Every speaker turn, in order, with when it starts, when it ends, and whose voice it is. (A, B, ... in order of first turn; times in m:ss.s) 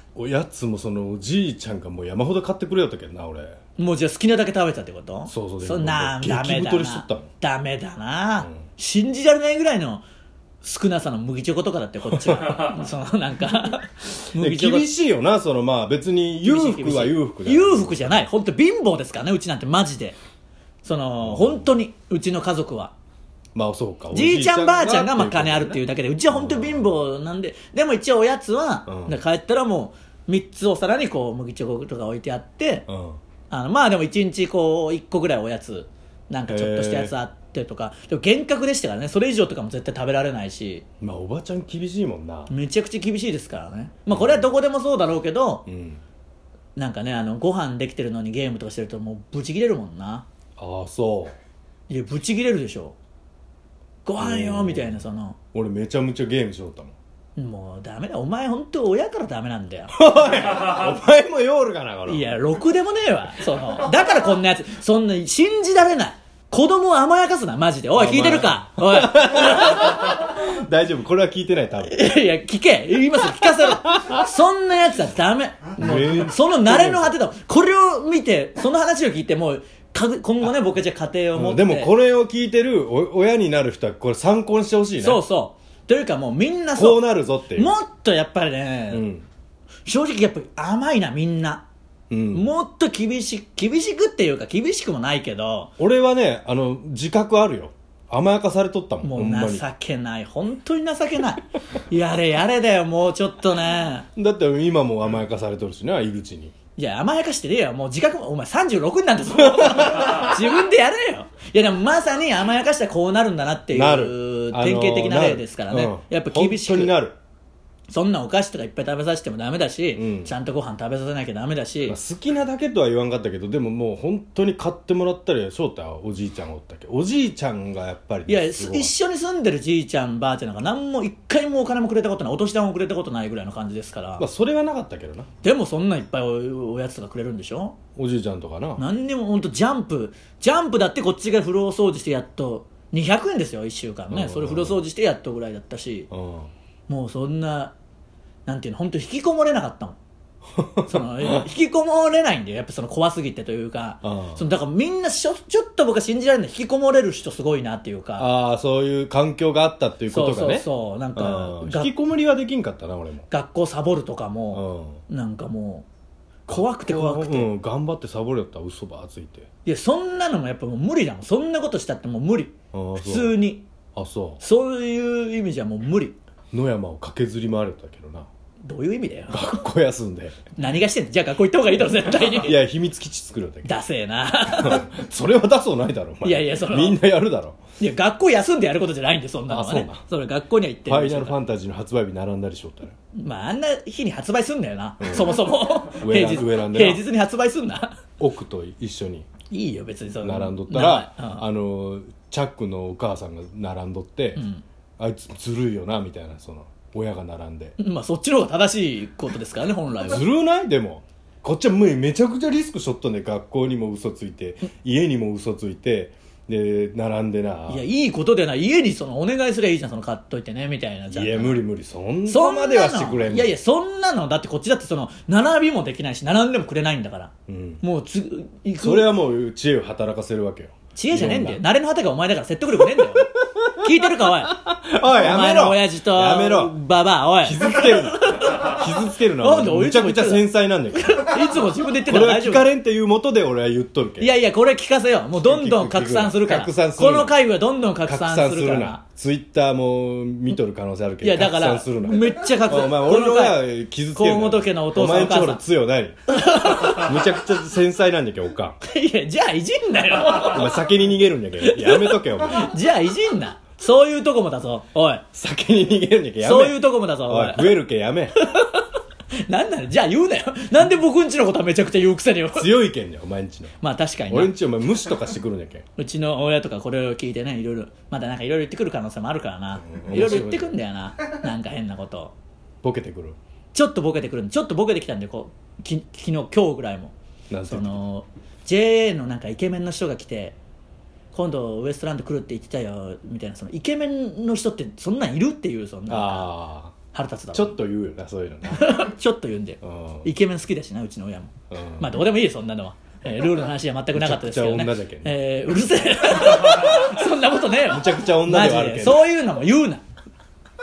0:00.1-0:03.6 A
0:03.8-0:10.0 B
0:05.3-0:07.3 A
0:10.6-0:14.9 B
0:12.1-0:12.6 A
0:14.3-0:18.3 A
0:16.4-0:20.2 B
0:20.8-0:22.9 B
0:21.2-0:21.7 A
0:23.5-0:26.9 A
0:24.1-0:32.9 B
0:28.9-0:29.1 A
0:32.9-0:33.2 A
0:33.5-0:40.8 B
0:36.5-0:37.1 A
0:41.0-0:42.5 A
0:42.5-0:45.7 B
0:44.1-0:44.5 A
0:45.6-0:46.0 A
0:46.8-0:50.2 B
0:50.6-0:51.3 A
0:51.9-0:53.0 B
0:54.0-0:55.4 B
0:54.2-0:55.0 A
0:55.5-0:56.9 A
0:57.4-0:59.9 B
0:59.9-1:02.3 A
1:02.1-1:10.0 B
1:07.9-1:12.0 A
1:11.9-1:21.9 B
1:15.8-1:17.2 A
1:21.3-1:25.2 A
1:25.0-1:29.0 B
1:26.7-1:27.7 A
1:28.9-1:29.2 A
1:29.8-1:31.6 B
1:32.1-1:32.5 A
1:32.3-1:35.7 B
1:35.8-1:39.6 A
1:39.0-1:44.1 B
1:44.2-1:46.5 A
1:46.8-1:57.0 B
1:49.6-1:50.1 A
1:53.7-1:57.2 A
1:57.9-2:02.0 B
1:59.9-2:00.3 A
2:01.8-2:08.9 A
2:08.3-2:14.2 B
2:14.2-2:15.3 A
2:15.4-2:17.8 B
2:18.0-2:18.8 A
2:18.8-2:26.1 B
2:24.1-2:24.8 A
2:26.1-2:26.5 A
2:26.9-2:27.7 B
2:28.5-2:30.0 B
2:30.5-2:31.5 A
2:30.9-2:38.3 B
2:34.0-2:34.4 A
2:38.2-2:43.3 A
2:40.1-2:41.9 B
2:43.3-2:45.9 B
2:44.5-2:45.0 A
2:46.5-2:47.5 B
2:46.5-2:49.5 A
2:49.6-2:53.6 B
2:52.7-2:53.4 A
2:53.9-2:54.4 A
2:54.4-2:56.2 B
2:56.5-2:58.3 A
2:58.6-2:59.6 B
2:59.3-3:00.4 A
3:00.6-3:02.6 B
3:02.2-3:03.8 A
3:03.6-3:04.8 B
3:04.4-3:07.6 A
3:06.2-3:07.0 B
3:07.8-3:11.4 B
3:09.5-3:10.0 A
3:10.9-3:12.9 A
3:13.2-3:18.0 B
3:15.0-3:17.0 A
3:18.2-3:19.3 A
3:19.5-3:21.4 B
3:20.2-3:24.4 A
3:24.4-3:24.6 B
3:25.0-3:27.8 A
3:27.8-3:30.2 B
3:30.0-3:37.8 A
3:37.7-3:41.6 B
3:41.1-3:43.5 A
3:42.2-3:49.1 B
3:47.5-3:47.8 A
3:48.8-3:51.6 A
3:50.9-4:02.7 B
3:52.8-3:56.8 A
3:57.4-4:04.4 A
4:04.2-4:09.0 B
4:05.4-4:07.4 A
4:08.0-4:18.8 A
4:11.2-4:15.6 B
4:16.3-4:17.1 B
4:18.8-4:20.8 B
4:20.3-4:22.8 A
4:21.6-4:25.2 B
4:25.3-4:28.4 A
4:26.4-4:27.7 B
4:28.4-4:32.7 B
4:32.5-4:33.8 A
4:33.8-4:34.5 B
4:34.3-4:35.8 A
4:36.0-4:42.3 B
4:39.8-4:40.7 A
4:42.8-4:43.4 A
4:43.7-4:47.1 B
4:47.5-4:48.0 A
4:47.7-4:50.6 B
4:51.3-4:56.5 B
4:56.1-4:57.0 A
4:57.1-4:57.8 B
4:57.5-4:59.0 A
4:58.7-5:10.0 B
4:59.8-5:00.3 A
5:01.7-5:02.2 A
5:04.1-5:05.4 A
5:07.8-5:09.2 A